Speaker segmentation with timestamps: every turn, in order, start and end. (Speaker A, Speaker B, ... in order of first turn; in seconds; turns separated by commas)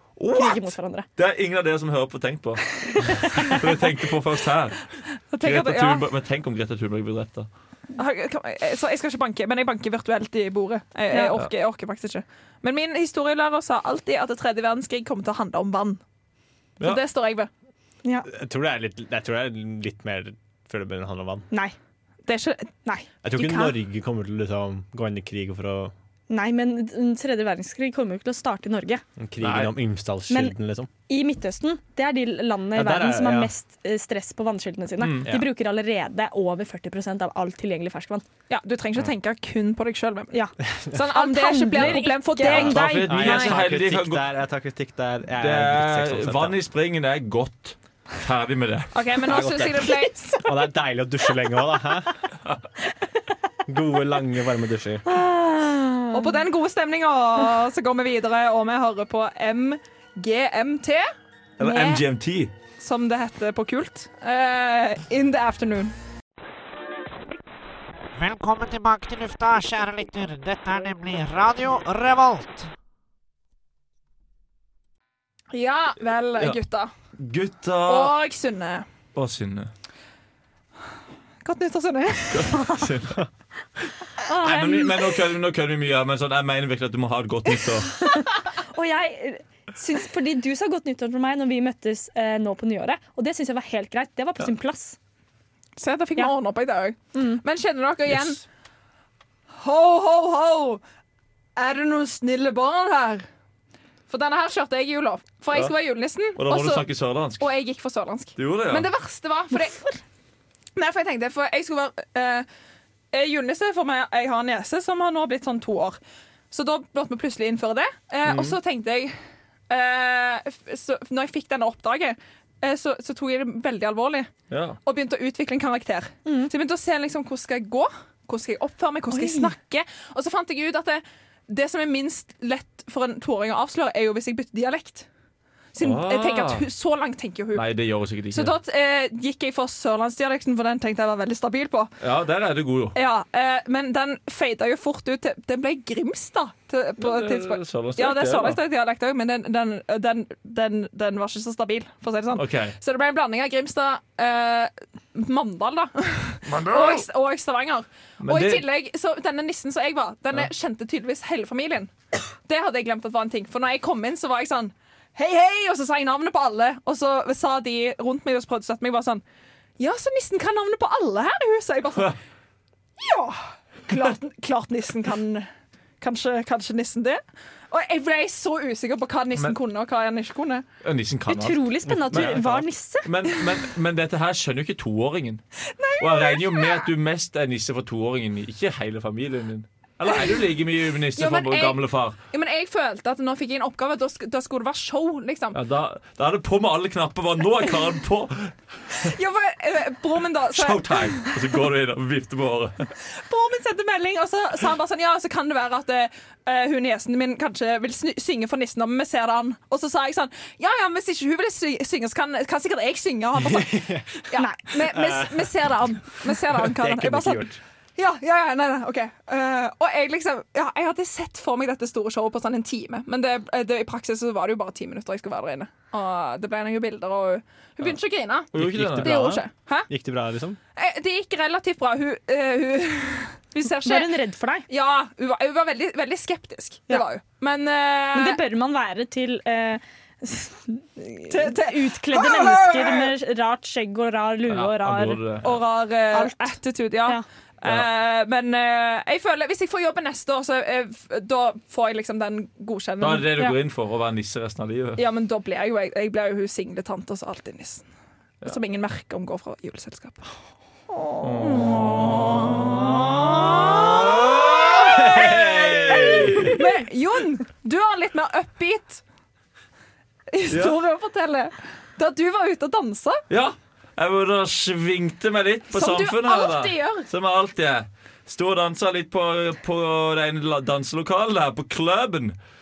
Speaker A: 0.2-7.5, Speaker B: 0.3-1.1, Speaker B: 2.8-3.6, Speaker C: 5.3-6.0, Speaker C: 7.9-16.0, Speaker B: 11.1-11.3, Speaker C: 16.8-17.5, Speaker D: 18.2-21.5, Speaker C: 22.2-23.8, Speaker D: 23.2-25.9, Speaker B: 26.3-29.0, Speaker D: 29.2-30.9, Speaker A: 29.4-29.7, Speaker B: 30.3-30.5, Speaker B: 31.1-38.2, Speaker D: 32.7-33.5, Speaker A: 35.0-35.3, Speaker C: 38.5-43.4, Speaker B: 40.3-43.6, Speaker A: 42.5-44.3, Speaker D: 42.5-46.6, Speaker A: 45.4-49.6, Speaker C: 48.9-50.3, Speaker D: 49.3-49.8, Speaker B: 50.0-50.4, Speaker D: 50.4-52.1, Speaker D: 53.6-55.0, Speaker B: 55.0-56.4, Speaker C: 56.1-61.1, Speaker A: 61.6-62.5, Speaker C: 61.6-62.0, Speaker C: 62.8-65.9, Speaker E: 68.1-72.7, Speaker C: 75.5-76.9, Speaker A: 77.2-78.1, Speaker C: 77.8-78.8, Speaker A: 79.1-79.7, Speaker C: 81.4-82.7, Speaker A: 82.3-83.2, Speaker B: 84.2-85.2, Speaker A: 84.3-88.1, Speaker B: 88.0-95.0, Speaker C: 95.8-98.4, Speaker B: 97.1-97.4, Speaker A: 98.1-98.3, Speaker C: 99.5-100.8, Speaker C: 101.5-103.2, Speaker C: 104.1-109.8, Speaker A: 106.4-107.4, Speaker A: 108.4-108.9, Speaker B: 109.5-110.0, Speaker C: 110.8-112.5, Speaker C: 113.1-116.0, Speaker C: 116.5-119.1, Speaker C: 119.7-124.3, Speaker A: 124.5-124.8, Speaker C: 124.8-135.1, Speaker B: 126.2-126.5, Speaker B: 129.1-129.5, Speaker C: 135.7-137.7, Speaker A: 135.8-136.6, Speaker A: 137.5-138.5, Speaker C: 138.3-141.9, Speaker A: 142.0-142.9, Speaker C: 142.9-161.9, Speaker A: 147.0-148.6, Speaker A: 152.3-152.7, Speaker A: 156.5-157.0, Speaker A: 158.2-158.6, Speaker C: 162.4-169.2, Speaker C: 169.8-172.2, Speaker C: 173.0-175.5, Speaker C: 176.0-180.6, Speaker A: 180.8-185.4, Speaker B: 181.3-183.1, Speaker D: 181.9-182.4, Speaker C: 185.7-186.9, Speaker A: 186.0-192.2, Speaker C: 190.1-190.4, Speaker C: 191.2-195.6, Speaker A: 195.5-199.1, Speaker C: 198.9-201.3, Speaker A: 200.5-202.9, Speaker C: 203.1-229.9, Speaker D: 213.3-214.2, Speaker B: 214.3-214.6, Speaker D: 214.8-215.7, Speaker D: 216.3-217.6, Speaker A: 228.5-229.1, Speaker D: 228.5-230.6, Speaker C: 230.8-234.1, Speaker B: 233.8-234.6, Speaker C: 234.7-238.4, Speaker B: 238.1-245.2, Speaker C: 241.3-243.1, Speaker A: 244.5-245.6, Speaker C: 245.4-253.4, Speaker B: 246.1-247.2, Speaker A: 247.6-247.9, Speaker A: 253.0-255.0, Speaker C: 255.0-257.8, Speaker C: 258.4-260.2, Speaker B: 261.2-261.6, Speaker A: 261.2-266.6, Speaker B: 262.8-264.0, Speaker C: 264.6-269.0, Speaker C: 270.3-273.2, Speaker A: 270.5-270.8, Speaker A: 273.3-282.4, Speaker C: 275.7-277.1